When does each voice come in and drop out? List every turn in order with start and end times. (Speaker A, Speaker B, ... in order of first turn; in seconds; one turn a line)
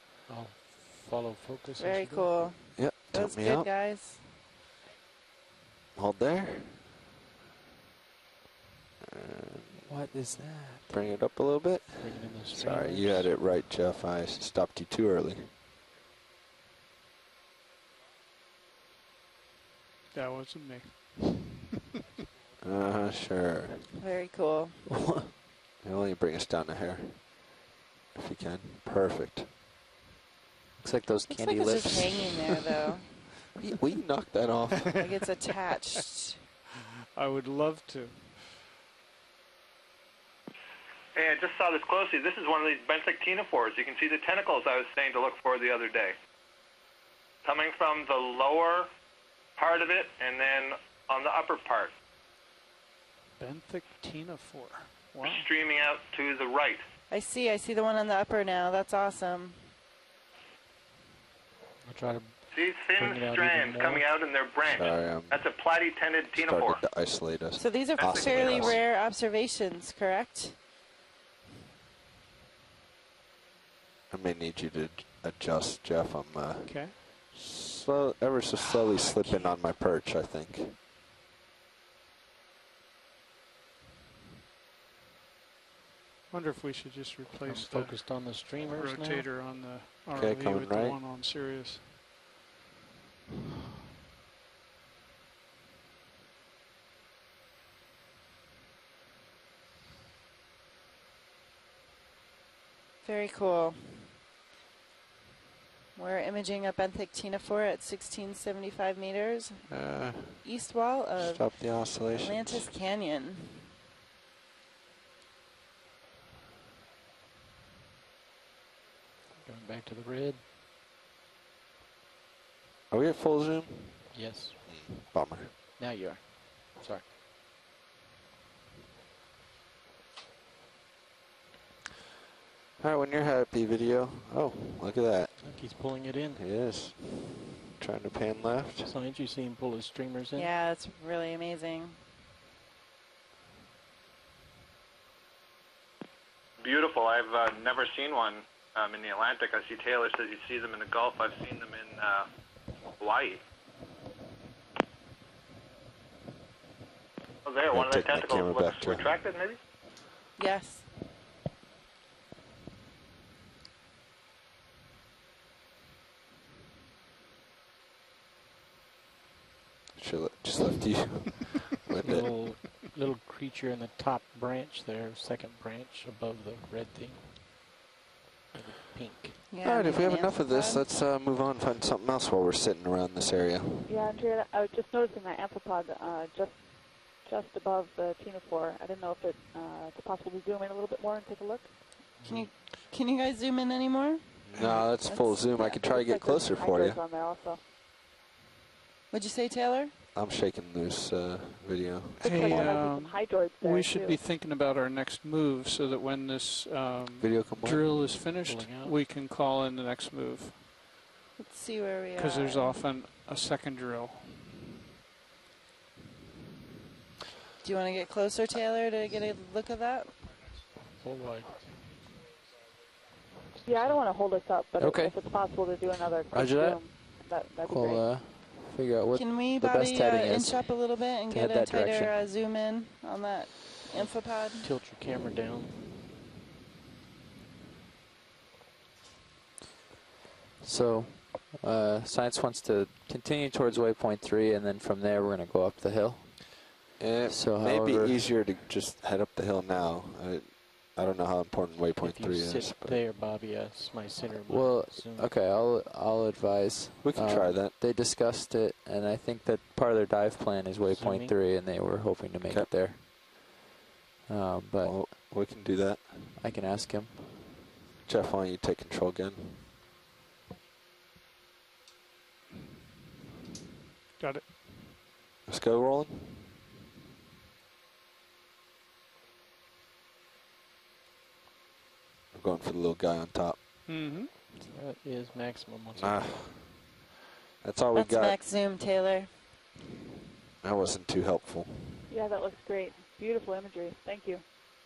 Speaker A: 0.3-2.4
Speaker B: 1.8-4.3
Speaker C: 2.8-3.7
Speaker C: 6.0-6.9
Speaker C: 9.0-9.9
Speaker D: 9.8-10.9
Speaker C: 10.9-15.6
Speaker A: 12.0-13.3
Speaker E: 20.1-21.5
Speaker C: 22.6-23.9
Speaker B: 23.9-24.9
Speaker D: 24.9-25.4
Speaker C: 25.8-29.5
Speaker D: 30.8-32.6
Speaker B: 31.3-33.1
Speaker C: 33.6-35.0
Speaker E: 34.7-35.3
Speaker B: 35.0-36.5
Speaker E: 37.1-38.5
Speaker F: 41.2-46.1
Speaker F: 47.4-48.9
Speaker F: 49.6-51.9
Speaker E: 53.4-55.5
Speaker F: 55.2-56.8
Speaker B: 57.1-59.7
Speaker A: 61.8-64.1
Speaker F: 62.5-66.8
Speaker C: 64.6-65.4
Speaker C: 66.3-68.8
Speaker B: 67.5-70.6
Speaker F: 68.0-68.8
Speaker C: 74.1-80.8
Speaker E: 76.7-77.0
Speaker B: 78.6-79.6
Speaker E: 86.3-91.9
Speaker A: 87.5-89.3
Speaker C: 90.1-91.0
Speaker B: 103.0-104.2
Speaker B: 106.0-109.7
Speaker C: 109.7-110.5
Speaker B: 110.4-113.7
Speaker C: 111.2-112.7
Speaker A: 119.4-120.4
Speaker C: 122.9-125.5
Speaker A: 124.1-124.7
Speaker A: 125.8-127.1
Speaker C: 132.8-135.4
Speaker A: 135.4-136.4
Speaker C: 136.4-138.9
Speaker A: 138.8-140.5
Speaker B: 140.3-142.0
Speaker F: 146.6-152.3
Speaker F: 153.0-153.4
Speaker F: 157.4-159.6
Speaker C: 157.7-159.2
Speaker B: 160.4-160.9
Speaker C: 170.0-172.3
Speaker A: 172.0-177.4
Speaker A: 178.5-179.4
Speaker B: 179.5-180.8
Speaker C: 179.6-184.0
Speaker G: 183.9-191.7
Speaker A: 192.2-192.5
Speaker B: 192.2-196.5
Speaker C: 194.5-197.0
Speaker G: 195.9-197.6
Speaker B: 199.1-200.0
Speaker C: 200.1-202.6
Speaker E: 202.2-210.7
Speaker B: 202.4-202.7
Speaker G: 202.5-204.2
Speaker C: 207.2-207.9
Speaker A: 208.4-209.0
Speaker B: 211.4-212.8
Speaker E: 212.2-214.6
Speaker B: 217.6-220.2
Speaker A: 221.0-221.7
Speaker G: 223.7-228.1
Speaker D: 224.8-225.6
Speaker D: 226.3-227.0
Speaker D: 227.7-232.2
Speaker B: 229.1-234.7
Speaker A: 233.9-235.9
Speaker D: 240.6-246.7
Speaker C: 247.0-253.1
Speaker D: 247.2-248.3
Speaker A: 252.0-255.4
Speaker D: 254.5-263.6
Speaker C: 257.0-257.8
Speaker A: 260.9-261.4
Speaker D: 264.3-265.1
Speaker C: 264.8-266.4
Speaker D: 266.4-267.6
Speaker C: 268.1-269.7
Speaker E: 274.2-274.5
Speaker C: 275.5-276.5
Speaker C: 282.3-283.6
Speaker E: 283.9-284.3
Speaker A: 284.6-286.4
Speaker C: 286.0-287.0
Speaker C: 287.6-288.4
Speaker B: 287.9-289.3
Speaker C: 290.6-292.1
Speaker G: 292.1-294.4